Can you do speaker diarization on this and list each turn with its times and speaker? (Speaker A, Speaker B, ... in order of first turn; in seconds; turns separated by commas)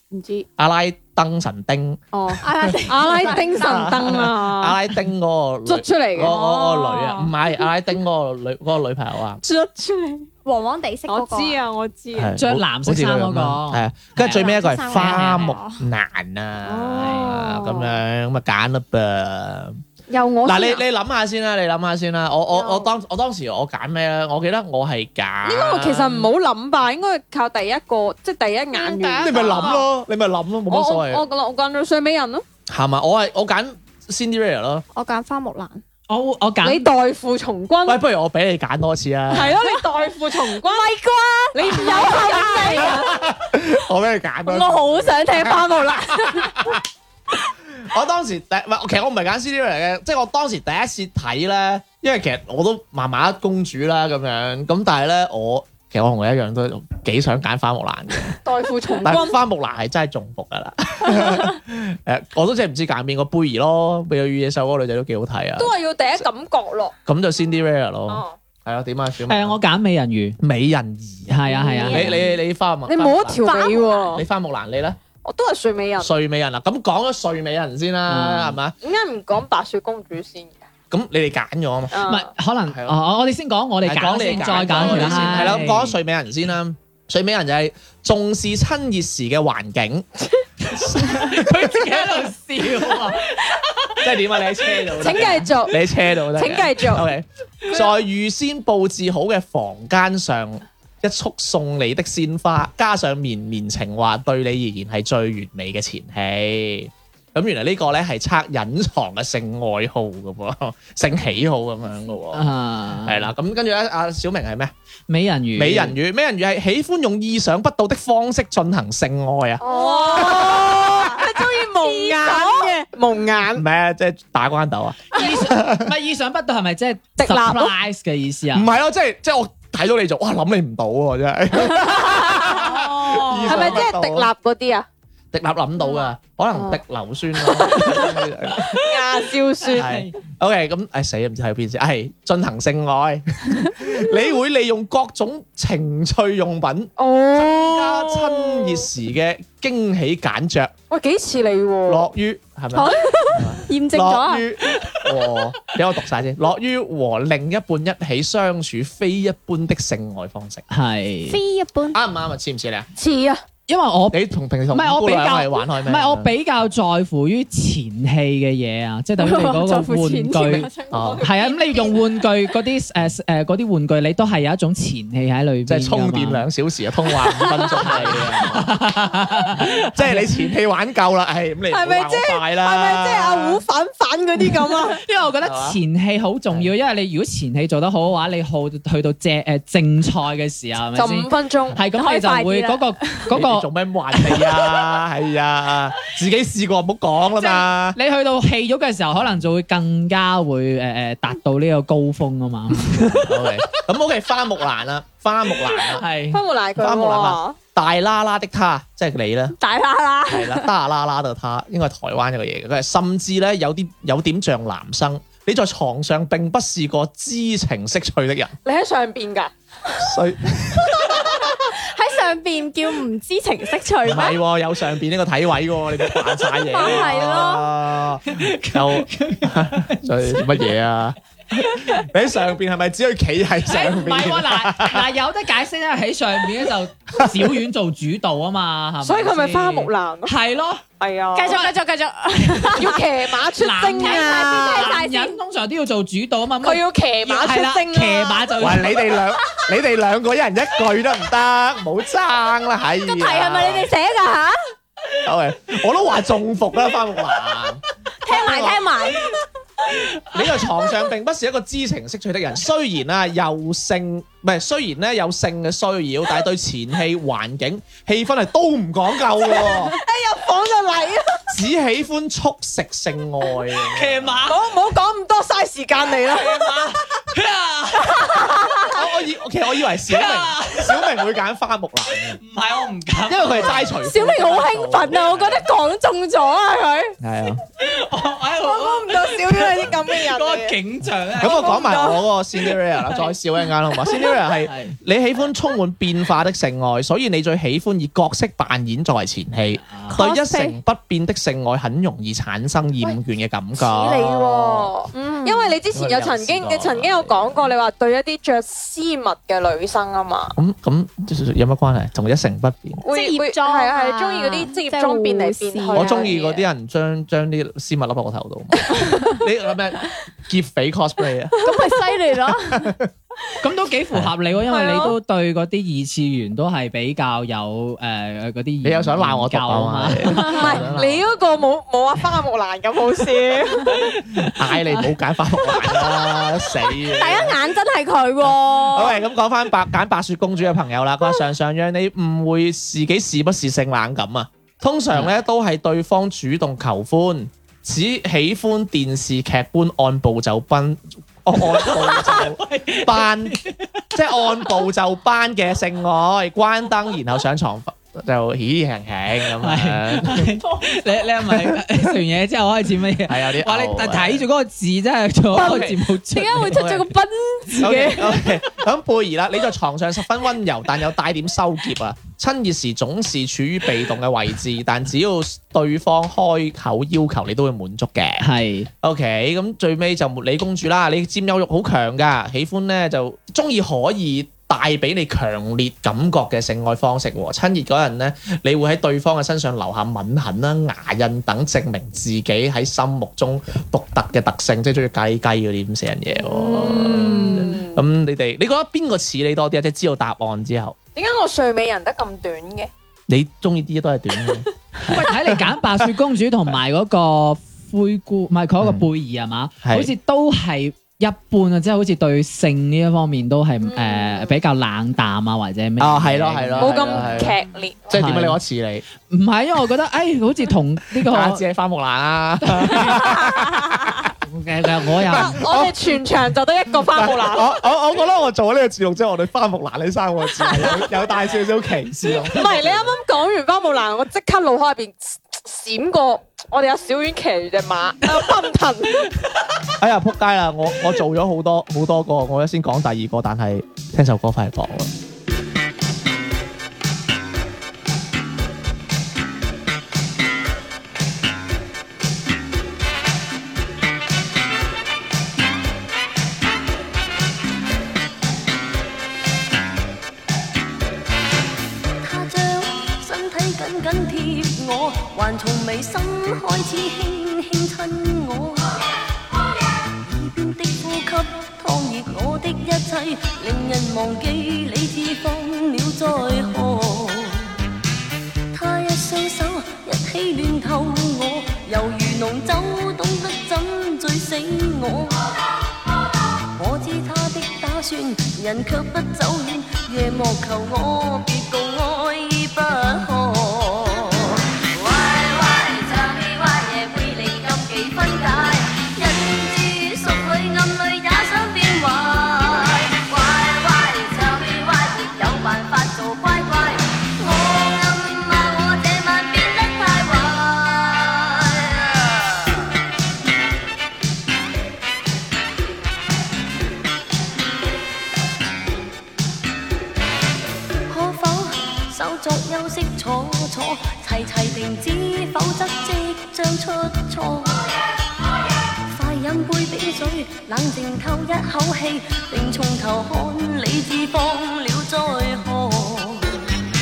Speaker A: 0.1-0.5, Speaker B: 0.6-2.0, Speaker A: 2.1-4.8, Speaker C: 2.4-3.8, Speaker B: 2.5-9.4, Speaker A: 5.7-6.9, Speaker C: 6.9-7.2, Speaker A: 9.4-10.3, Speaker C: 10.4-11.6, Speaker A: 11.1-12.4, Speaker B: 12.1-19.8, Speaker D: 12.4-15.6, Speaker C: 14.2-15.8, Speaker A: 16.7-18.0, Speaker D: 17.0-17.3, Speaker A: 20.1-20.8, Speaker B: 20.4-26.3, Speaker A: 22.5-22.9, Speaker A: 25.4-29.8, Speaker C: 28.7-29.8, Speaker B: 29.2-31.2, Speaker A: 30.7-32.5, Speaker B: 32.7-34.9, Speaker C: 35.0-35.8, Speaker D: 36.1-36.9, Speaker A: 36.6-38.0, Speaker B: 37.9-39.6, Speaker A: 39.3-43.1, Speaker C: 41.1-43.2, Speaker B: 42.7-46.8, Speaker C: 44.5-46.7, Speaker B: 47.8-58.4, Speaker A: 58.4-59.4, Speaker B: 59.0-66.2, Speaker A: 65.6-66.9, Speaker B: 67.1-69.6, Speaker A: 68.1-68.3, Speaker D: 69.3-70.4, Speaker B: 70.4-75.0, Speaker D: 71.3-72.2, Speaker C: 71.6-72.2, Speaker A: 71.8-72.1, Speaker A: 72.9-74.2, Speaker C: 73.4-74.0, Speaker A: 75.2-76.1, Speaker B: 76.0-78.8, Speaker D: 78.1-78.6, Speaker A: 78.8-80.6, Speaker B: 80.9-82.1, Speaker A: 81.9-82.3, Speaker D: 82.1-86.0, Speaker B: 82.7-83.0, Speaker B: 83.8-90.1, Speaker A: 84.9-85.5, Speaker B: 90.7-92.2, Speaker D: 90.8-94.0, Speaker B: 94.0-112.5, Speaker A: 95.0-97.1, Speaker D: 112.3-113.3, Speaker B: 113.0-114.7, Speaker D: 115.1-116.0, Speaker B: 115.6-119.6, Speaker A: 119.6-123.7, Speaker C: 119.8-120.4, Speaker B: 120.2-121.2, Speaker C: 121.8-122.7, Speaker B: 123.5-125.9, Speaker D: 125.1-128.7, Speaker A: 127.2-127.7, Speaker B: 128.5-134.3, Speaker D: 132.6-133.8, Speaker A: 133.4-134.9, Speaker B: 135.3-138.8, Speaker A: 136.5-136.8, Speaker A: 137.4-138.1, Speaker A: 138.7-139.9, Speaker D: 139.6-140.2, Speaker B: 139.7-150.7, Speaker A: 147.0-148.8, Speaker A: 150.9-152.1, Speaker B: 151.9-160.6, Speaker C: 152.7-154.5, Speaker D: 160.7-161.4, Speaker C: 161.3-162.0, Speaker B: 161.9-162.9, Speaker A: 163.0-163.4, Speaker D: 163.7-170.7, Speaker B: 164.1-166.3, Speaker C: 169.2-171.8, Speaker B: 170.9-171.3, Speaker A: 170.9-171.9, Speaker D: 171.2-176.4, Speaker B: 175.7-178.8, Speaker D: 177.7-180.3, Speaker B: 179.8-183.6, Speaker A: 181.7-185.0, Speaker D: 184.9-193.7, Speaker B: 185.4-185.8, Speaker A: 190.9-191.8, Speaker C: 191.9-193.3, Speaker B: 193.3-198.0, Speaker D: 197.4-203.8, Speaker B: 203.1-206.0, Speaker D: 205.8-206.4, Speaker A: 206.3-207.6, Speaker B: 206.8-209.6, Speaker C: 209.6-210.7, Speaker B: 210.3-218.6, Speaker A: 218.7-220.0, Speaker B: 220.0-221.0, Speaker A: 221.0-221.3, Speaker C: 221.5-224.4, Speaker B: 224.0-235.1, Speaker C: 226.7-227.7, Speaker D: 228.3-230.7, Speaker D: 233.7-240.8, Speaker A: 239.0-240.3, Speaker A: 241.0-241.7, Speaker C: 241.3-243.0, Speaker D: 242.5-242.8, Speaker A: 242.8-244.9, Speaker D: 243.6-249.0, Speaker C: 243.9-245.4, Speaker A: 246.6-248.6, Speaker B: 248.6-253.9, Speaker C: 253.0-254.6, Speaker B: 255.2-258.9, Speaker C: 258.2-259.3, Speaker B: 260.3-270.0, Speaker A: 269.5-271.5, Speaker B: 271.5-274.4, Speaker D: 273.9-274.6, Speaker A: 274.5-276.9, Speaker D: 276.4-278.5, Speaker A: 278.1-278.9, Speaker B: 278.9-282.4, Speaker D: 280.1-281.1, Speaker D: 282.4-283.9, Speaker B: 283.3-285.6, Speaker C: 284.1-287.1, Speaker B: 287.2-287.6, Speaker D: 287.8-292.0, Speaker A: 288.6-290.8, Speaker B: 291.4-305.0, Speaker A: 291.4-292.1, Speaker D: 294.6-295.0, Speaker D: 299.9-300.2, Speaker C: 300.1-300.8, Speaker A: 303.8-310.6, Speaker C: 305.1-305.8, Speaker B: 305.9-307.7, Speaker B: 310.6-313.0, Speaker A: 313.0-316.6, Speaker C: 313.1-316.4, Speaker B: 315.9-321.6, Speaker C: 321.6-322.9, Speaker B: 322.6-323.1, Speaker D: 323.6-330.8, Speaker A: 324.7-325.1, Speaker B: 328.8-331.2, Speaker C: 330.4-330.8, Speaker A: 330.5-334.0, Speaker D: 334.2-334.6, Speaker B: 334.4-337.6, Speaker C: 337.0-339.2, Speaker B: 338.4-353.6, Speaker D: 351.6-354.0, Speaker B: 354.1-360.6, Speaker D: 359.6-366.9, Speaker B: 361.5-362.1, Speaker B: 363.3-364.5, Speaker B: 365.5-366.0, Speaker C: 366.5-368.3, Speaker B: 366.6-367.1, Speaker B: 367.8-378.5, Speaker D: 378.4-378.9, Speaker B: 379.0-401.0, Speaker A: 396.4-398.0, Speaker A: 401.1-402.9, Speaker B: 403.3-405.7, Speaker D: 405.0-417.4, Speaker B: 408.8-409.1, Speaker B: 409.8-410.1, Speaker A: 413.9-414.4, Speaker B: 416.0-417.6, Speaker A: 416.8-418.1, Speaker B: 418.1-419.1, Speaker D: 418.1-418.6, Speaker D: 419.3-421.6, Speaker B: 421.2-424.3, Speaker D: 422.7-423.1, Speaker D: 424.4-425.6, Speaker B: 425.2-426.0, Speaker A: 425.3-427.8, Speaker B: 427.0-433.1, Speaker A: 432.3-439.3, Speaker B: 440.0-445.1, Speaker E: 462.2-469.0, Speaker E: 470.2-477.8, Speaker E: 478.7-485.5, Speaker E: 486.8-512.5, Speaker E: 521.1-527.9, Speaker E: 529.0-536.6